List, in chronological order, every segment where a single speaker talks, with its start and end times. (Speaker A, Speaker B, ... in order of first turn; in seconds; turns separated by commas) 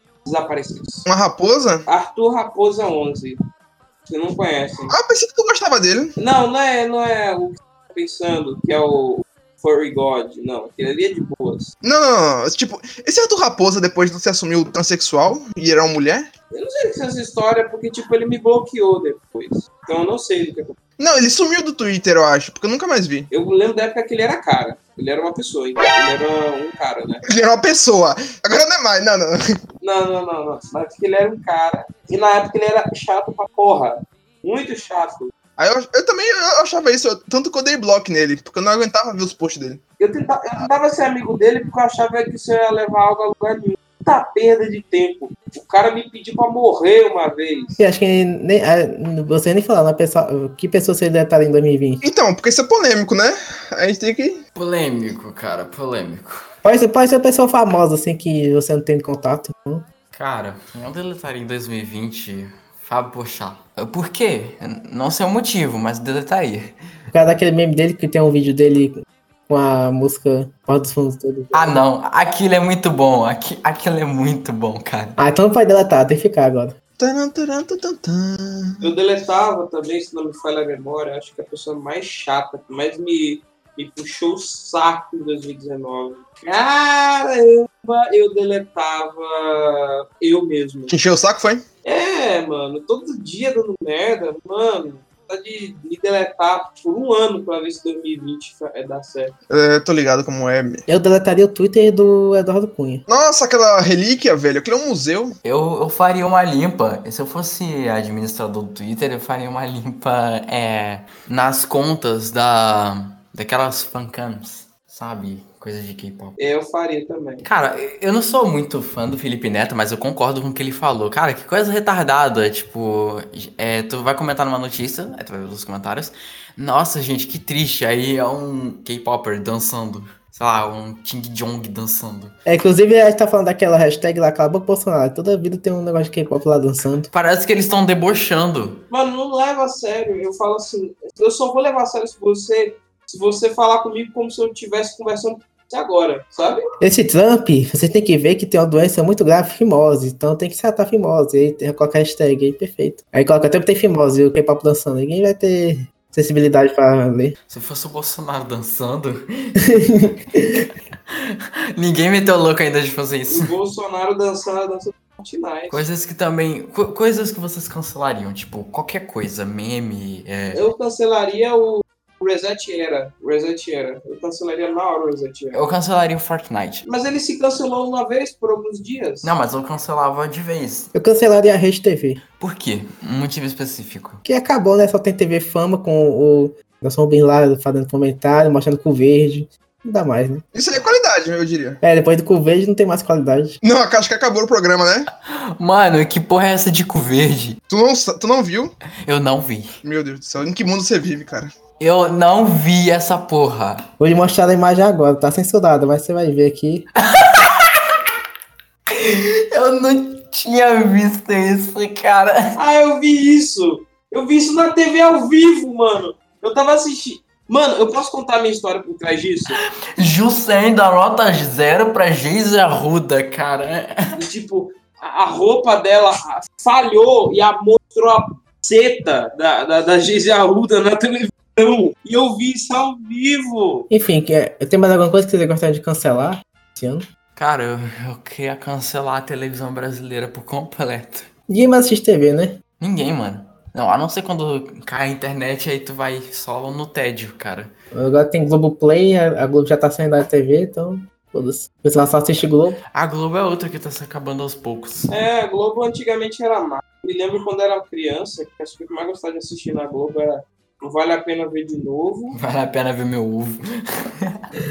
Speaker A: 0.2-1.1, Speaker B: 1.1-1.9, Speaker A: 1.9-3.4, Speaker A: 4.1-5.0, Speaker B: 4.9-6.2, Speaker A: 6.2-11.7, Speaker B: 11.8-16.3, Speaker A: 16.5-20.8, Speaker B: 21.0-23.3, Speaker A: 23.3-27.2, Speaker B: 27.3-29.6, Speaker A: 29.8-35.3, Speaker B: 35.6-39.8, Speaker A: 40.0-47.8, Speaker C: 47.8-52.0, Speaker B: 52.0-54.4, Speaker D: 54.5-56.5, Speaker C: 56.6-59.9, Speaker D: 60.1-66.7, Speaker C: 67.1-71.8, Speaker D: 71.5-75.2, Speaker C: 75.2-76.8, Speaker B: 77.0-78.9, Speaker A: 78.8-90.9, Speaker B: 90.9-91.7, Speaker A: 91.8-99.3, Speaker B: 99.5-100.8, Speaker C: 100.9-103.0, Speaker B: 103.1-105.4, Speaker D: 105.4-116.4, Speaker A: 116.4-117.5, Speaker D: 117.4-132.4, Speaker C: 132.5-137.1, Speaker D: 137.1-138.8, Speaker A: 138.9-146.6, Speaker C: 146.8-157.4, Speaker D: 157.5-160.1, Speaker C: 159.7-160.7, Speaker D: 161.1-163.5, Speaker A: 163.3-165.8, Speaker D: 165.7-170.6, Speaker A: 170.5-175.6, Speaker D: 175.5-176.8, Speaker A: 176.8-179.3, Speaker D: 179.2-180.9, Speaker C: 180.9-182.2, Speaker D: 182.4-184.2, Speaker C: 184.2-190.4, Speaker B: 190.5-191.8, Speaker C: 191.8-193.6, Speaker B: 193.6-195.1, Speaker D: 195.3-197.6, Speaker B: 197.7-198.8, Speaker D: 199.0-199.8, Speaker B: 199.8-201.5, Speaker D: 201.8-203.9, Speaker C: 204.0-206.9, Speaker D: 207.0-207.8, Speaker D: 208.9-212.6, Speaker A: 212.6-219.6, Speaker D: 219.6-224.2, Speaker A: 224.2-233.9, Speaker C: 233.9-237.1, Speaker D: 237.4-241.3, Speaker C: 241.5-242.6, Speaker D: 242.8-247.7, Speaker C: 247.9-252.8, Speaker D: 252.9-255.1, Speaker A: 255.1-262.4, Speaker D: 262.3-264.4